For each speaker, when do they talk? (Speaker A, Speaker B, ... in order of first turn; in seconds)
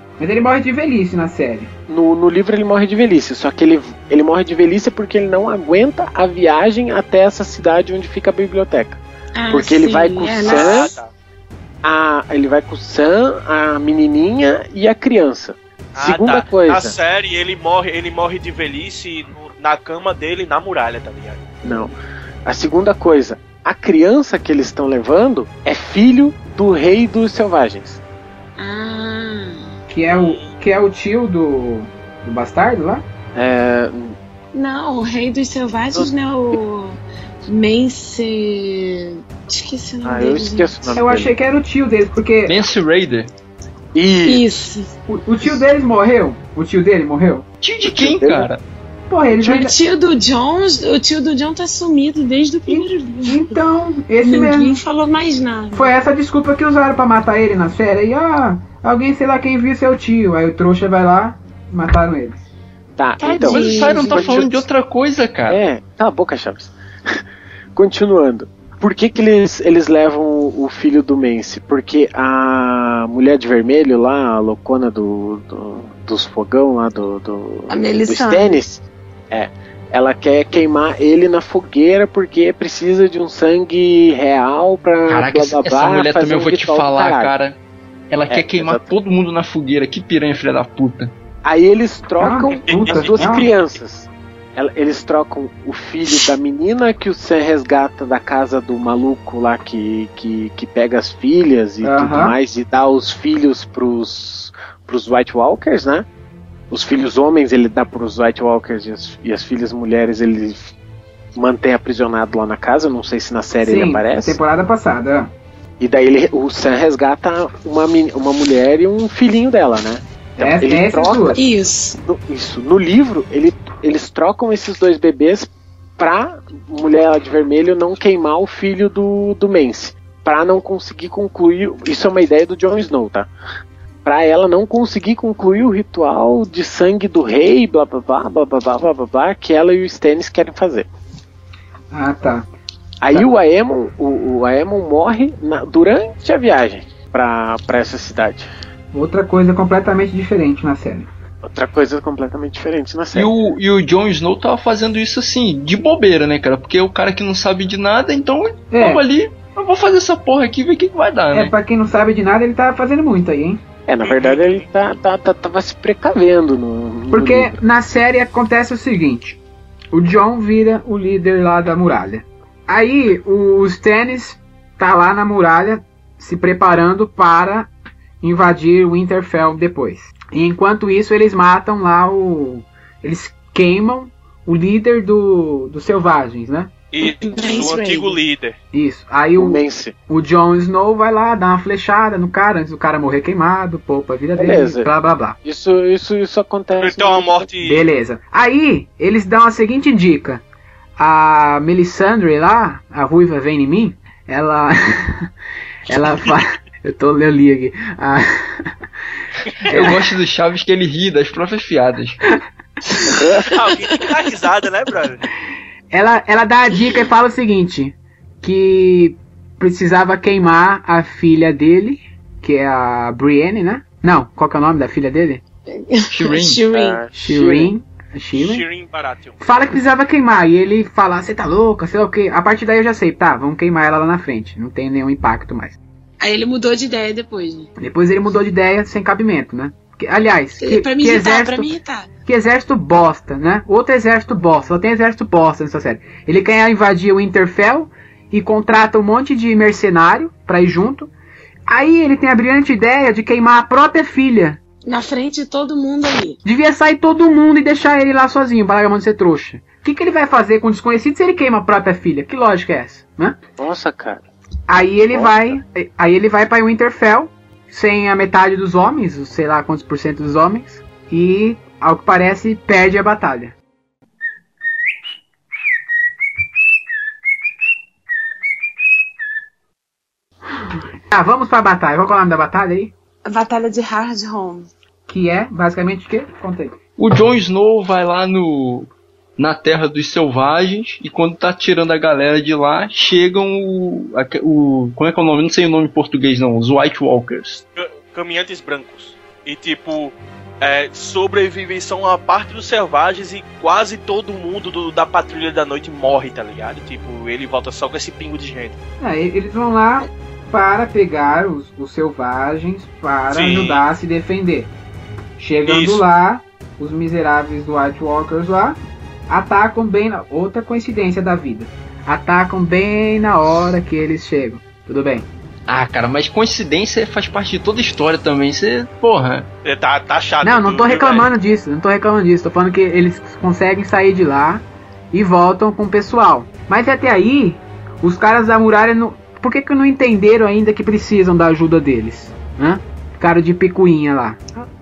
Speaker A: 0.2-1.7, 29.9-33.0, 41.0-42.6, 45.1-47.5, 49.1-49.8, 52.7-54.8, 55.7-62.4, 92.2-93.5, 101.8-102.4, 113.6-115.3, 120.4-121.4, 141.9-142.5, 148.9-151.1, 158.7-159.0, 161.3-163.6, 167.1-169.4, 169.9-186.7, 188.7-195.4, 197.6-200.4, 201.0-205.3, 205.9-208.8, 209.7-210.1, 212.9-213.2, 215.9-225.4, 227.1-228.7, 229.4-235.8, 237.8-241.7, 242.3-251.1, 251.7-254.6, 256.4-263.4, 264.7-273.6, 280.6-282.9, 285.1-286.8, 309.0-314.7, 315.4-325.3, 330.4-344.7
Speaker B: 1.9-9.0, 9.5-10.9, 11.8-16.9, 21.6-28.0, 33.4-34.2, 35.9-36.5, 40.0-41.3, 44.0-44.6, 47.9-48.5, 63.0-64.7, 65.5-67.2, 67.8-87.3, 88.3-88.9, 91.5-106.1, 106.7-110.7, 111.3-114.4, 115.8-121.4, 122.0-133.3, 134.1-140.9, 143.0-148.5, 151.4-153.3, 163.9-167.6, 189.4-189.9, 194.4-194.9, 195.4-197.5, 213.1-213.5, 226.7-227.7, 263.6-264.2, 265.1-265.6
Speaker C: 9.3-10.9, 28.6-29.7, 34.5-41.0, 44.2-44.9, 49.4-53.5, 54.2-55.9, 63.2-64.5, 77.7-78.5, 121.3-122.0, 187.0-188.2, 225.7-227.0, 236.2-237.7, 240.6-242.1, 254.8-256.4, 283.2-284.7
Speaker D: 10.4-11.1, 15.9-21.4, 30.1-30.5, 92.6-93.4, 164.0-164.7, 186.9-188.6, 196.8-197.9, 213.5-215.3, 228.3-229.4, 297.8-308.8, 313.3-313.8, 315.7-316.0, 329.6-331.3
Speaker E: 42.5-43.3, 47.6-48.6, 63.4-65.6, 85.1-87.6, 88.1-91.1, 153.1-161.5, 209.7-212.2, 226.1-226.6, 287.0-297.6, 325.7-329.5